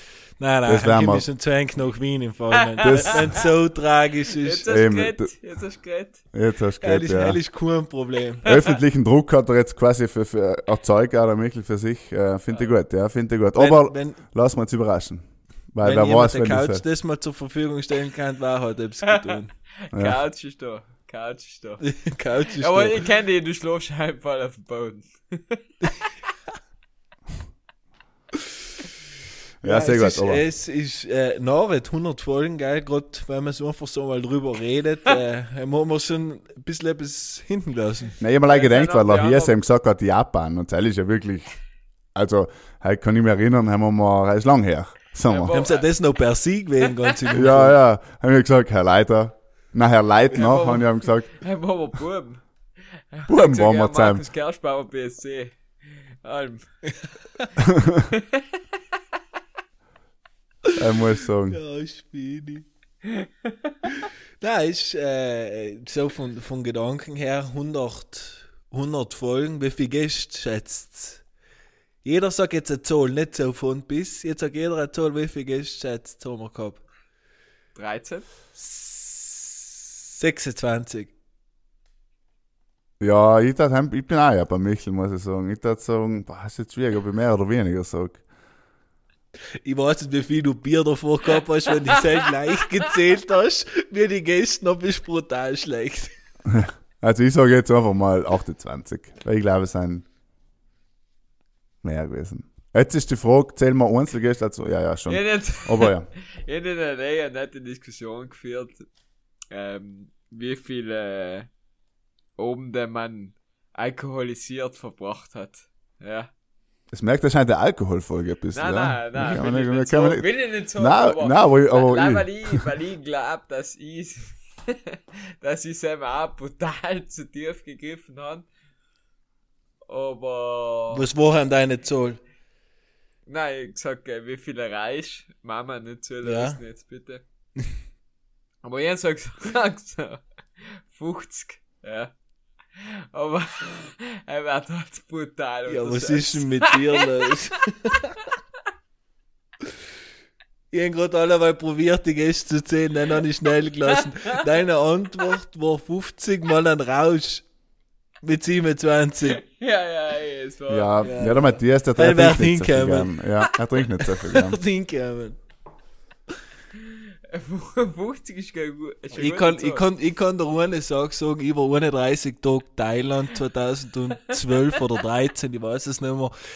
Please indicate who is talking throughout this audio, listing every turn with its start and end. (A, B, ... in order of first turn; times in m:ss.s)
0:00.4-0:04.6 A
0:00.6-0:01.2 B
0:02.8-0:03.3 B
0:04.4-0:06.2 C
0:04.7-0:05.3 B
0:06.3-0:07.4 B
0:06.8-0:08.4 A
0:08.4-0:16.8 B
0:13.6-0:14.2 A
0:15.8-0:19.5 A
0:19.1-0:26.1 C
0:21.8-0:23.0 A
0:29.6-0:30.4 B
0:29.6-0:38.1 A
0:38.2-0:41.5 B
0:38.5-0:39.6 C
0:42.1-0:45.6 B
0:45.3-0:45.9 C
0:45.5-0:47.8 A
0:47.3-0:51.3 B
0:50.3-0:52.4 C
0:53.1-0:56.9 C
0:53.3-0:54.2 B
0:56.9-0:57.4 A
0:57.7-0:58.1 B
0:58.1-0:58.4 C
1:00.7-1:01.6 B
1:01.5-1:02.6 A
1:04.4-1:11.2 A
1:12.0-1:16.8 A
1:17.7-1:18.3 C
1:18.6-1:21.1 A
1:23.0-1:28.2 B
1:29.6-1:36.1 A
1:36.5-1:40.0 B
1:41.8-1:46.1 B
1:45.1-1:48.8 C
1:49.5-1:51.5 C
1:52.4-1:56.3 C
1:56.9-2:02.6 B
1:58.5-2:08.5 C
2:09.9-2:11.0 C
2:10.9-2:12.2 A
2:13.3-2:17.2 C
2:16.2-2:16.6 A
2:18.6-2:22.1 C
2:22.7-2:27.0 C
2:25.7-2:28.2 A
2:30.7-2:37.5 A
2:38.2-2:39.4 A
2:39.3-2:41.0 C
2:40.7-2:44.6 B
2:41.0-2:43.2 A
2:44.0-2:45.4 A
2:47.3-2:49.8 C
2:49.1-2:56.3 A